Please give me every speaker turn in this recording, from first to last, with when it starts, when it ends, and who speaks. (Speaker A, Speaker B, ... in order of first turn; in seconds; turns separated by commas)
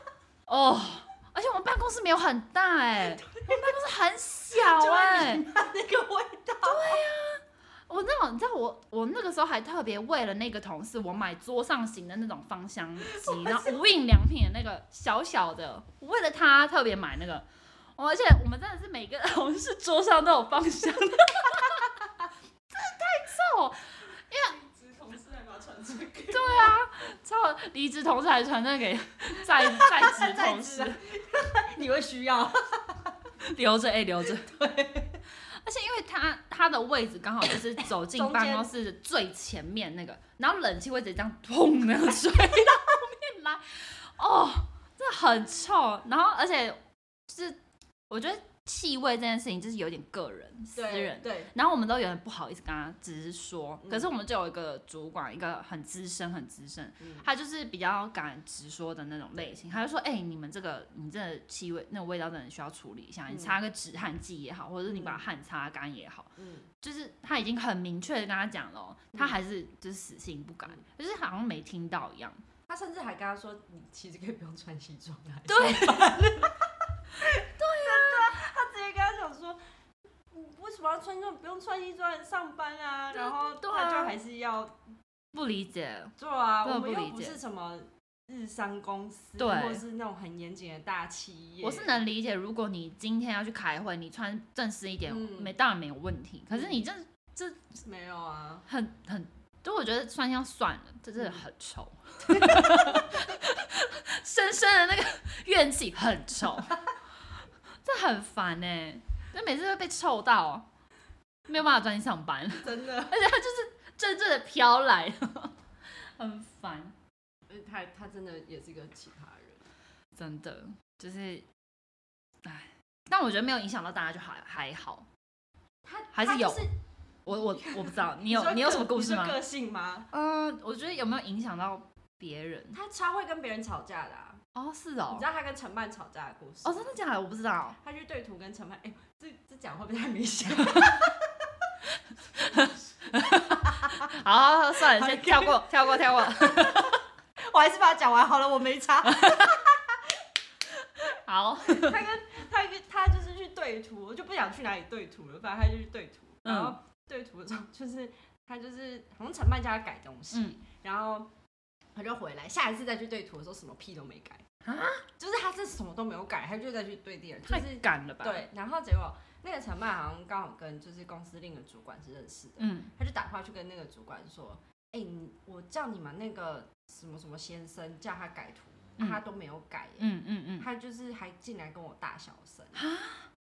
Speaker A: 0.5-5.5, Speaker B: 3.0-3.9, Speaker B: 4.5-7.0, Speaker A: 6.6-17.5, Speaker B: 13.1-13.8, Speaker A: 18.0-21.9, Speaker A: 22.7-24.6, Speaker B: 24.6-26.8, Speaker A: 26.3-31.0, Speaker B: 29.5-33.2, Speaker A: 33.4-34.5, Speaker B: 34.2-35.2, Speaker A: 35.5-47.6, Speaker B: 38.0-38.7, Speaker A: 48.1-72.4, Speaker B: 50.8-51.5, Speaker B: 53.8-54.1, Speaker B: 57.0-57.3, Speaker B: 63.3-63.6, Speaker B: 64.9-65.2, Speaker B: 66.4-66.7, Speaker B: 72.7-79.6, Speaker A: 75.5-76.2, Speaker A: 77.2-78.4, Speaker B: 80.3-84.8, Speaker A: 83.1-84.2, Speaker A: 85.3-87.4, Speaker B: 86.2-92.0, Speaker A: 89.4-89.8, Speaker A: 91.6-97.8, Speaker B: 95.1-95.5, Speaker B: 96.5-96.9, Speaker B: 97.8-98.7, Speaker A: 98.7-106.9, Speaker B: 101.2-101.4, Speaker B: 102.3-103.3, Speaker A: 107.8-110.7, Speaker A: 111.5-117.0, Speaker B: 112.6-113.2, Speaker B: 117.5-119.6, Speaker A: 120.2-121.5, Speaker A: 122.5-125.1, Speaker B: 125.8-126.8, Speaker A: 126.1-126.7, Speaker A: 127.3-129.4, Speaker B: 127.3-130.1, Speaker A: 130.1-132.8, Speaker B: 132.7-134.4, Speaker A: 134.6-135.3, Speaker B: 135.1-136.9, Speaker A: 136.6-137.8, Speaker B: 137.8-141.7, Speaker A: 142.4-147.0, Speaker B: 142.5-144.1, Speaker B: 144.8-150.2, Speaker A: 149.1-149.6, Speaker A: 151.0-152.1, Speaker B: 151.6-161.3, Speaker A: 156.4-156.8, Speaker A: 160.3-160.6, Speaker B: 161.9-164.4, Speaker A: 164.7-165.1, Speaker B: 165.2-182.8, Speaker A: 167.5-168.5, Speaker A: 172.6-172.9, Speaker A: 180.0-180.7, Speaker A: 182.8-183.3